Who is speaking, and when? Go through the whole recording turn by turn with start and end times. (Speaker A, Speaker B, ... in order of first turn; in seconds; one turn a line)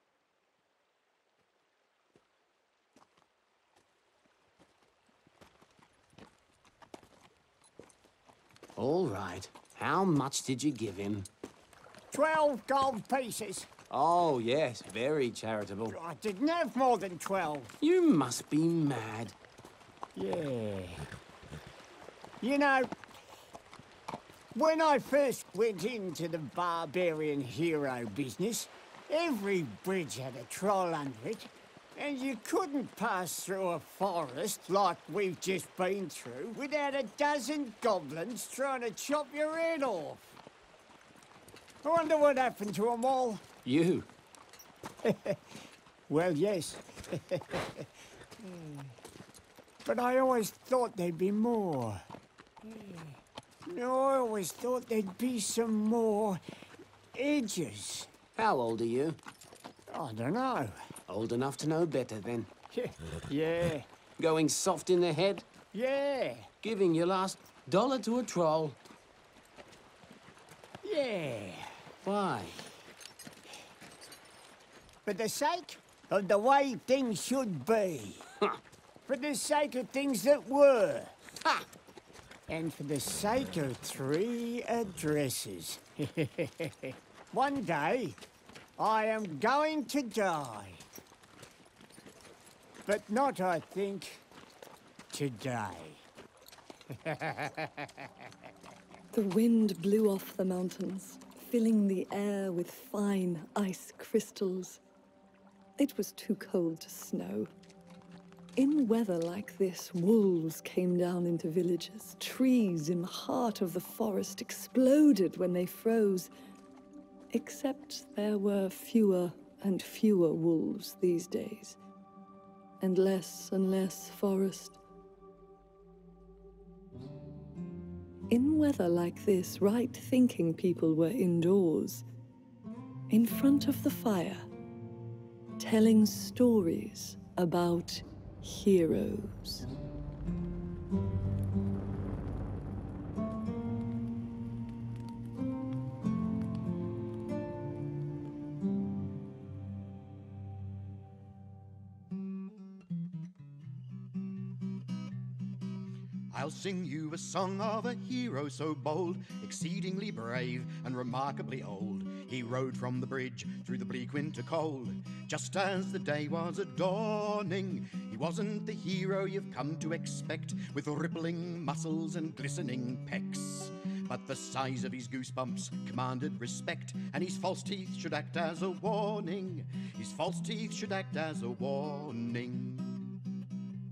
Speaker A: 8.8-11.3
Speaker B: 12.1-13.7
Speaker A: 13.9-15.9
Speaker B: 15.9-17.7
Speaker A: 17.8-19.3
Speaker B: 20.1-21.0
Speaker B: 22.4-22.9
Speaker B: 24.5-40.4
Speaker B: 41.8-43.5
Speaker A: 43.6-44.1
Speaker B: 45.0-45.6
Speaker B: 46.1-47.9
Speaker B: 48.4-48.9
Speaker B: 49.8-52.0
Speaker B: 52.6-56.4
Speaker B: 57.1-58.1
Speaker A: 58.4-59.2
Speaker B: 59.9-60.8
Speaker A: 61.1-62.5
Speaker B: 62.7-63.9
Speaker A: 64.2-65.5
Speaker B: 65.7-66.5
Speaker A: 66.6-68.8
Speaker B: 70.8-71.7
Speaker A: 72.0-72.6
Speaker B: 75.0-78.3
Speaker B: 79.1-81.2
Speaker B: 82.5-88.2
Speaker B: 88.8-90.8
Speaker B: 92.8-94.2
Speaker B: 95.1-96.0
Speaker B: 96.9-98.1
Speaker C: 99.1-104.8
Speaker C: 105.8-107.5
Speaker C: 108.6-116.3
Speaker C: 117.3-121.8
Speaker C: 122.8-124.8
Speaker C: 128.3-132.0
Speaker C: 133.1-134.4
Speaker C: 135.6-139.7
Speaker D: 156.3-183.2